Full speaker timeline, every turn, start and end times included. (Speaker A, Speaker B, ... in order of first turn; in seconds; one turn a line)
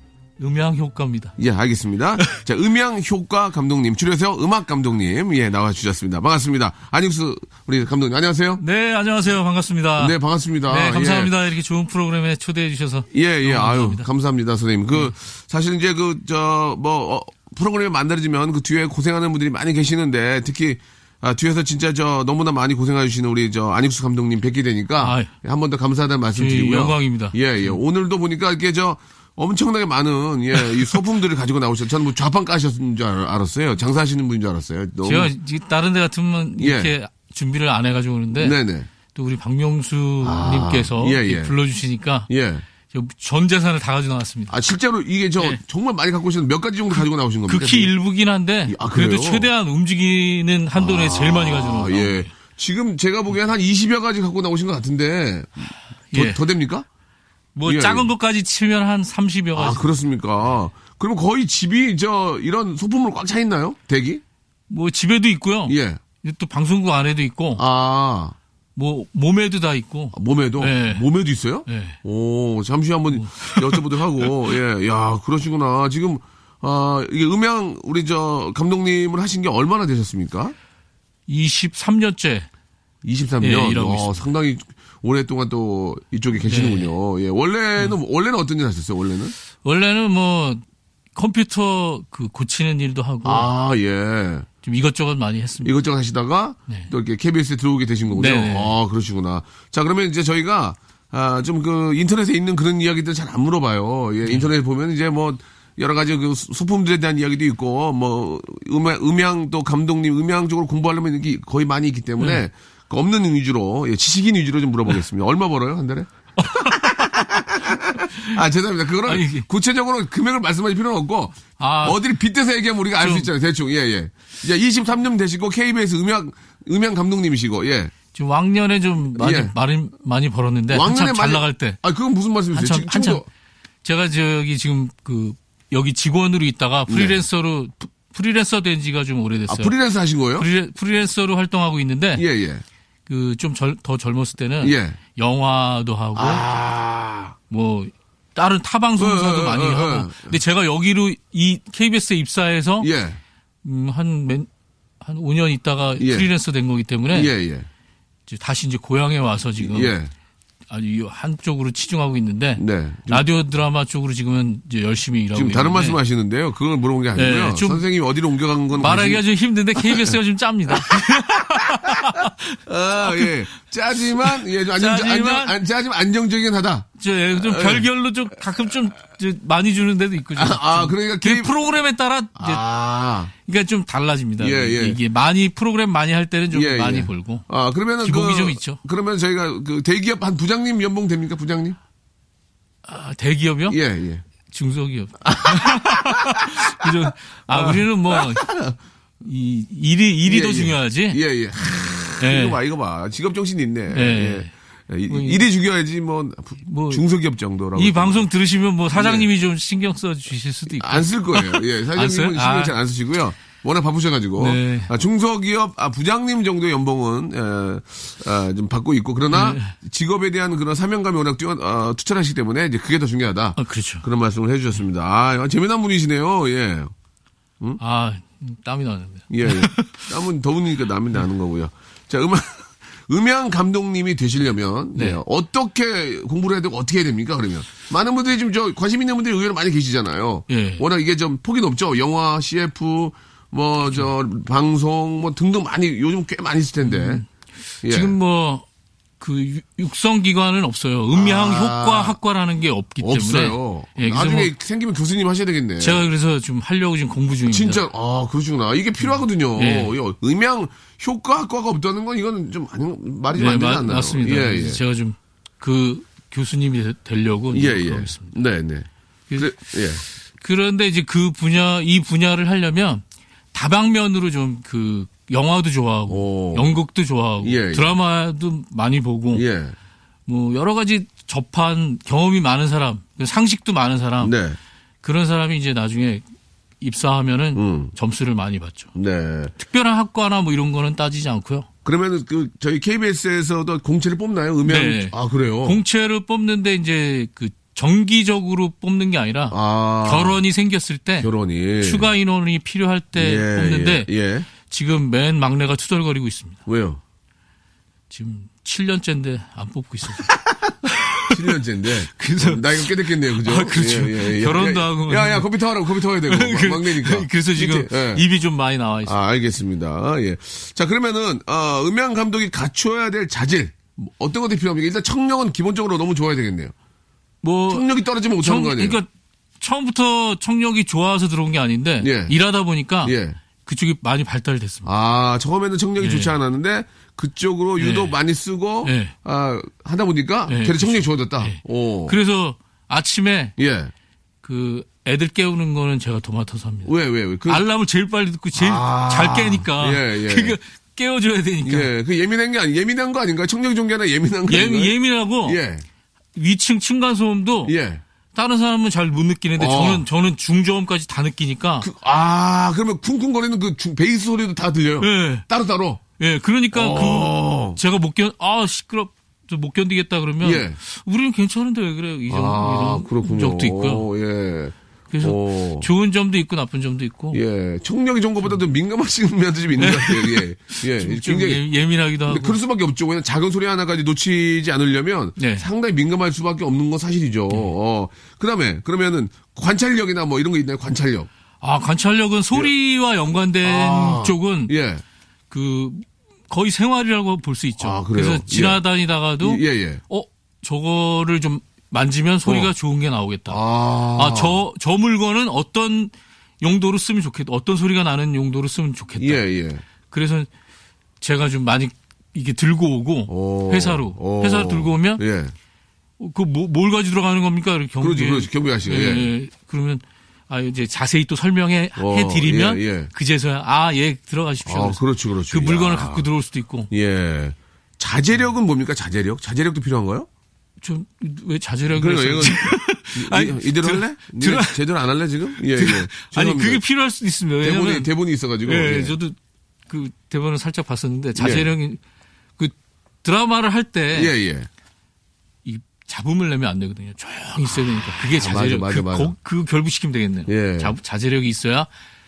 Speaker A: 0.4-1.4
Speaker B: 1.4-8.6
Speaker A: 8.6-14.1
Speaker B: 10.0-11.3
Speaker B: 13.1-35.3
Speaker A: 25.0-25.3
Speaker A: 26.4-27.8
Speaker A: 30.6-30.9
Speaker A: 35.0-38.6
Speaker B: 36.6-36.9
Speaker B: 38.4-38.9
Speaker A: 39.1-42.3
Speaker B: 40.2-41.5
Speaker B: 42.3-42.7
Speaker A: 42.9-44.6
Speaker B: 44.5-47.9
Speaker A: 47.0-52.3
Speaker B: 48.7-49.5
Speaker B: 50.8-56.9
Speaker A: 56.1-56.4
Speaker A: 57.5-59.9
Speaker B: 57.6-58.1
Speaker B: 59.6-64.2
Speaker A: 64.7-67.6
Speaker B: 65.7-66.0
Speaker B: 67.6-68.4
Speaker A: 68.8-71.1
Speaker B: 70.1-80.5
Speaker A: 71.7-72.0
Speaker A: 73.1-74.3
Speaker A: 81.3-82.5
Speaker B: 83.0-89.3
Speaker A: 83.4-84.2
Speaker A: 86.4-86.9
Speaker A: 89.6-90.6
Speaker A: 91.2-93.5
Speaker B: 93.2-94.5
Speaker A: 94.6-95.7
Speaker B: 95.6-127.9
Speaker A: 98.1-98.8
Speaker A: 104.2-104.5
Speaker A: 116.4-117.3
Speaker A: 117.9-118.4
Speaker A: 119.1-119.5
Speaker A: 121.6-122.0
Speaker A: 123.0-123.3
Speaker A: 128.1-131.8
Speaker B: 129.2-129.5
Speaker B: 130.7-133.2
Speaker A: 132.5-133.2
Speaker A: 133.8-139.7
Speaker B: 136.9-137.2
Speaker B: 139.5-140.5
Speaker A: 140.4-142.2
Speaker B: 142.2-142.6
Speaker A: 143.1-146.4
Speaker B: 144.6-145.0
Speaker B: 146.2-147.4
Speaker A: 147.5-152.9
Speaker B: 149.0-150.4
Speaker B: 152.8-153.2
Speaker A: 153.6-154.5
Speaker A: 155.0-157.3
Speaker B: 156.0-156.3
Speaker B: 157.1-157.7
Speaker A: 158.3-159.9
Speaker B: 159.6-160.1
Speaker A: 160.7-166.0
Speaker B: 162.6-163.3
Speaker B: 165.3-169.2
Speaker A: 167.1-167.8
Speaker A: 168.8-173.3
Speaker B: 169.8-170.2
Speaker B: 170.7-177.9
Speaker A: 174.2-175.6
Speaker A: 177.0-182.6
Speaker B: 180.3-181.6
Speaker B: 182.4-183.3
Speaker A: 183.4-187.5
Speaker B: 184.4-185.0
Speaker B: 186.5-191.8
Speaker A: 188.0-188.8
Speaker A: 192.8-193.8
Speaker B: 193.7-194.2
Speaker A: 194.5-198.5
Speaker B: 195.2-198.8
Speaker A: 199.2-201.2
Speaker B: 200.2-208.3
Speaker A: 202.2-202.6
Speaker A: 203.9-204.5
Speaker A: 205.1-205.5
Speaker A: 206.6-207.0
Speaker A: 207.7-212.8
Speaker B: 208.9-209.3
Speaker B: 210.7-226.9
Speaker A: 214.4-214.9
Speaker A: 219.3-219.8
Speaker A: 223.6-224.1
Speaker A: 227.8-230.1
Speaker B: 229.3-247.2
Speaker A: 234.9-235.2
Speaker A: 240.5-240.8
Speaker A: 246.8-247.3
Speaker A: 247.8-248.7
Speaker B: 247.8-248.2
Speaker A: 249.2-254.5
Speaker B: 251.1-252.2
Speaker B: 253.0-256.1
Speaker A: 255.8-257.8
Speaker B: 257.5-264.8
Speaker A: 259.0-259.9
Speaker A: 263.3-268.3
Speaker B: 267.5-270.0
Speaker A: 270.4-279.4
Speaker B: 276.1-276.8
Speaker B: 277.4-278.0
Speaker B: 279.3-279.8
Speaker A: 280.3-284.3
Speaker B: 284.2-284.6
Speaker A: 285.0-286.2
Speaker A: 286.8-288.9
Speaker B: 287.6-287.9
Speaker B: 288.9-289.5
Speaker A: 289.6-291.7
Speaker B: 291.9-295.8
Speaker A: 294.6-301.3
Speaker B: 299.5-300.4
Speaker B: 301.2-302.1
Speaker A: 301.8-304.1
Speaker B: 303.2-304.5
Speaker A: 304.6-306.6
Speaker B: 306.7-307.0
Speaker A: 308.1-311.5
Speaker B: 311.3-318.3
Speaker A: 312.1-319.2
Speaker B: 319.1-326.7
Speaker A: 327.4-329.1
Speaker B: 327.7-329.0
Speaker A: 329.6-334.9
Speaker B: 332.0-332.3
Speaker B: 333.0-333.4
Speaker B: 334.9-342.2
Speaker A: 336.0-336.3
Speaker A: 337.8-338.1
Speaker A: 338.8-339.1
Speaker A: 340.5-343.6
Speaker B: 343.6-343.9
Speaker A: 344.4-346.9
Speaker B: 346.9-347.7
Speaker A: 347.5-351.9
Speaker B: 348.6-350.6
Speaker B: 351.6-355.9
Speaker A: 354.5-355.6
Speaker A: 356.4-357.8
Speaker B: 357.7-358.0
Speaker A: 358.3-361.9
Speaker B: 359.6-360.1
Speaker B: 361.8-366.0
Speaker A: 365.0-365.5
Speaker A: 366.2-374.1
Speaker B: 366.7-367.8
Speaker B: 370.4-370.8
Speaker B: 372.3-375.9
Speaker A: 375.1-377.4
Speaker B: 377.3-381.6
Speaker A: 379.8-382.6
Speaker B: 382.3-391.3
Speaker A: 385.4-385.7
Speaker A: 391.6-394.7
Speaker B: 393.6-395.0
Speaker A: 395.5-409.4
Speaker B: 397.8-398.8
Speaker B: 399.4-400.0
Speaker B: 402.5-402.7
Speaker B: 403.5-404.6
Speaker B: 409.2-409.8
Speaker A: 410.1-410.5
Speaker A: 411.2-415.2
Speaker B: 413.3-415.5
Speaker A: 416.2-426.9
Speaker B: 418.0-419.3
Speaker B: 422.0-423.1
Speaker B: 424.6-426.3
Speaker B: 426.9-430.3
Speaker A: 430.8-434.8
Speaker B: 431.9-436.8
Speaker A: 435.6-438.1
Speaker B: 437.6-439.2
Speaker A: 438.6-439.4
Speaker A: 439.9-442.0
Speaker B: 441.4-441.7
Speaker A: 442.6-444.4
Speaker B: 444.1-444.7
Speaker A: 445.6-451.9
Speaker B: 448.2-449.3
Speaker B: 450.5-450.9